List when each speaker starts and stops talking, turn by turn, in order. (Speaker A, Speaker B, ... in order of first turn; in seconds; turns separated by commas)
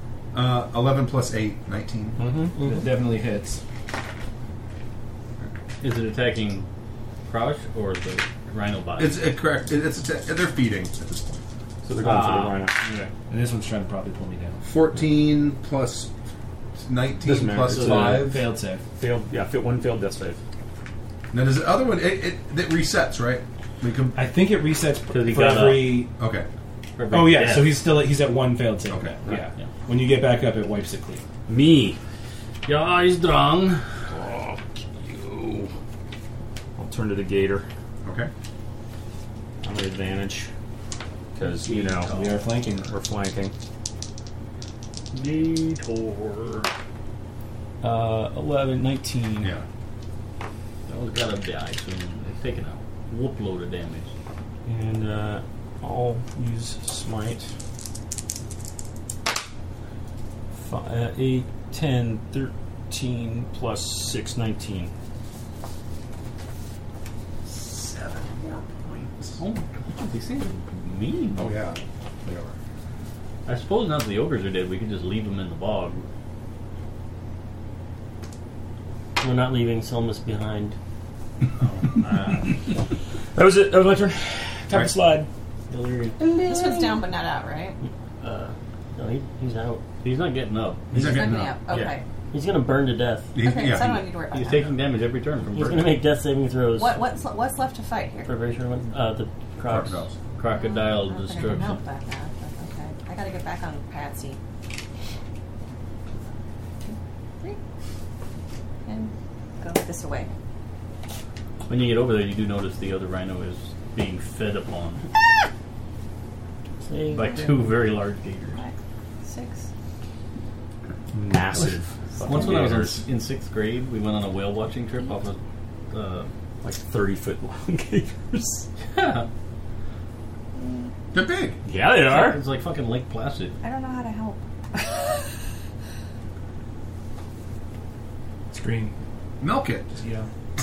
Speaker A: 0.3-2.2, Speaker B: 2.2-2.5, Speaker C: 2.6-2.9, Speaker D: 2.6-3.6, Speaker E: 5.4-6.7, Speaker E: 7.3-9.2, Speaker A: 9.0-11.4, Speaker B: 11.8-12.8, Speaker E: 12.0-13.1, Speaker D: 13.3-14.6, Speaker A: 14.6-16.1, Speaker A: 16.8-18.5, Speaker B: 17.2-20.4, Speaker E: 17.7-18.2, Speaker D: 17.8-18.8, Speaker A: 21.3-24.2, Speaker D: 24.1-26.1, Speaker E: 25.1-26.0, Speaker A: 26.2-26.5, Speaker E: 27.0-27.9, Speaker D: 27.0-31.2, Speaker E: 29.3-29.7, Speaker B: 31.5-32.0, Speaker E: 32.6-33.8, Speaker B: 34.1-35.7, Speaker B: 36.8-37.6, Speaker A: 38.0-38.3, Speaker B: 39.6-40.5, Speaker B: 41.3-42.1, Speaker E: 41.4-42.6, Speaker D: 42.0-42.9, Speaker B: 42.8-43.5, Speaker E: 45.1-46.7, Speaker B: 47.8-49.5, Speaker E: 50.9-54.1, Speaker B: 54.6-57.5, Speaker B: 60.5-64.9, Speaker A: 67.4-69.4, Speaker E: 69.4-71.6, Speaker A: 71.3-72.5, Speaker E: 73.5-76.0, Speaker C: 79.2-80.8, Speaker E: 81.6-82.6, Speaker B: 83.3-85.3, Speaker E: 85.7-86.2, Speaker F: 86.2-87.8, Speaker C: 88.2-89.8, Speaker E: 90.0-90.9, Speaker A: 90.9-91.6, Speaker F: 90.9-92.0, Speaker B: 91.7-92.0, Speaker C: 92.3-93.3, Speaker A: 93.3-94.1, Speaker F: 93.4-94.7, Speaker E: 94.3-96.0, Speaker C: 95.5-97.0, Speaker F: 96.7-98.3, Speaker C: 98.2-100.1, Speaker A: 99.6-100.2, Speaker E: 100.4-101.8, Speaker F: 100.5-104.4, Speaker F: 106.8-107.6, Speaker F: 108.8-110.3, Speaker E: 111.7-115.0, Speaker C: 116.8-117.6, Speaker E: 117.1-118.6, Speaker F: 118.5-119.7, Speaker B: 121.1-123.1, Speaker E: 121.5-125.4, Speaker E: 125.9-126.3, Speaker B: 126.6-128.7, Speaker E: 128.9-129.3, Speaker F: 130.6-130.9, Speaker A: 131.1-131.6, Speaker B: 131.7-132.4, Speaker E: 131.9-133.6, Speaker F: 133.6-135.2, Speaker D: 138.5-138.9, Speaker A: 139.4-139.9, Speaker D: 139.9-140.3